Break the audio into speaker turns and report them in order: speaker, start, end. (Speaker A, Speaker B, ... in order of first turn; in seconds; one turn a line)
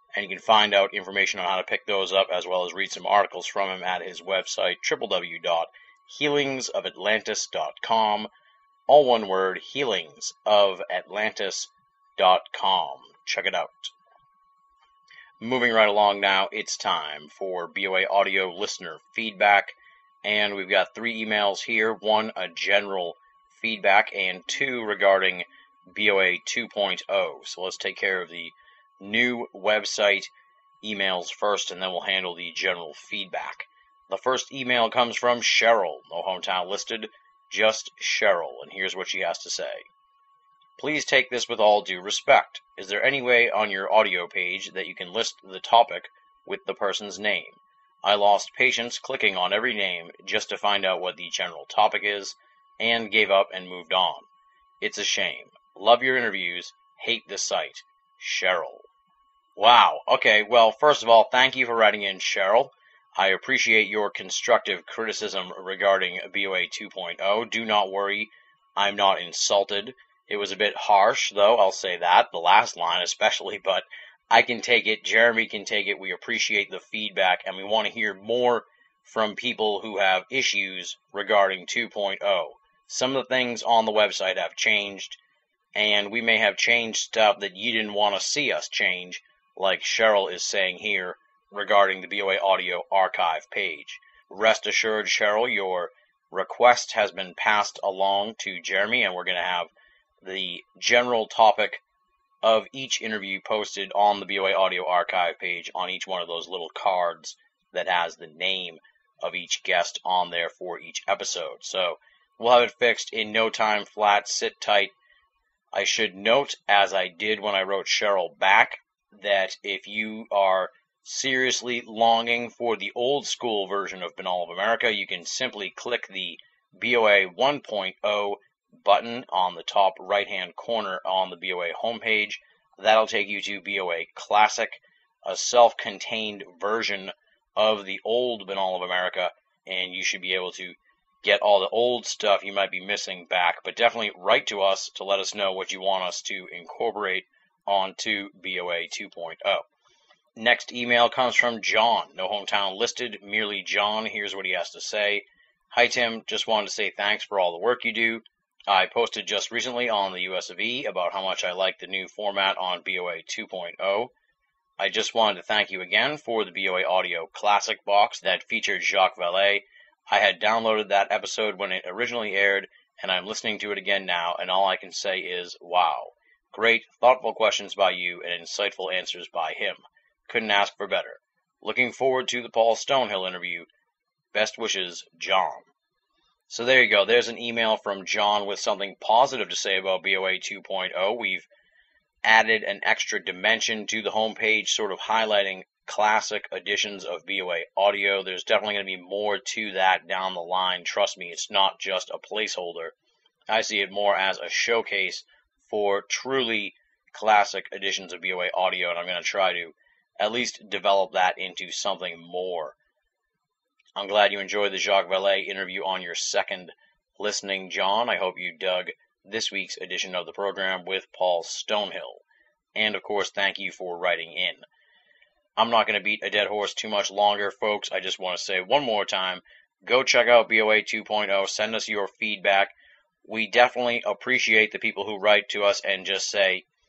Speaker A: 0.1-8.3
Speaker A: 8.9-13.9
Speaker A: 15.4-39.9
Speaker A: 40.8-54.3
Speaker A: 54.8-58.9
Speaker A: 59.6-85.2
Speaker A: 85.8-99.7
Speaker A: 100.2-101.8
Speaker A: 102.4-114.9
Speaker A: 115.7-149.7
Speaker A: 150.4-164.1
Speaker A: 164.8-183.7
Speaker A: 184.3-185.7
Speaker A: 186.5-191.5
Speaker A: 192.2-202.9
Speaker A: 203.5-212.8
Speaker A: 213.9-222.2
Speaker A: 222.8-224.7
Speaker A: 225.6-232.7
Speaker A: 233.2-236.6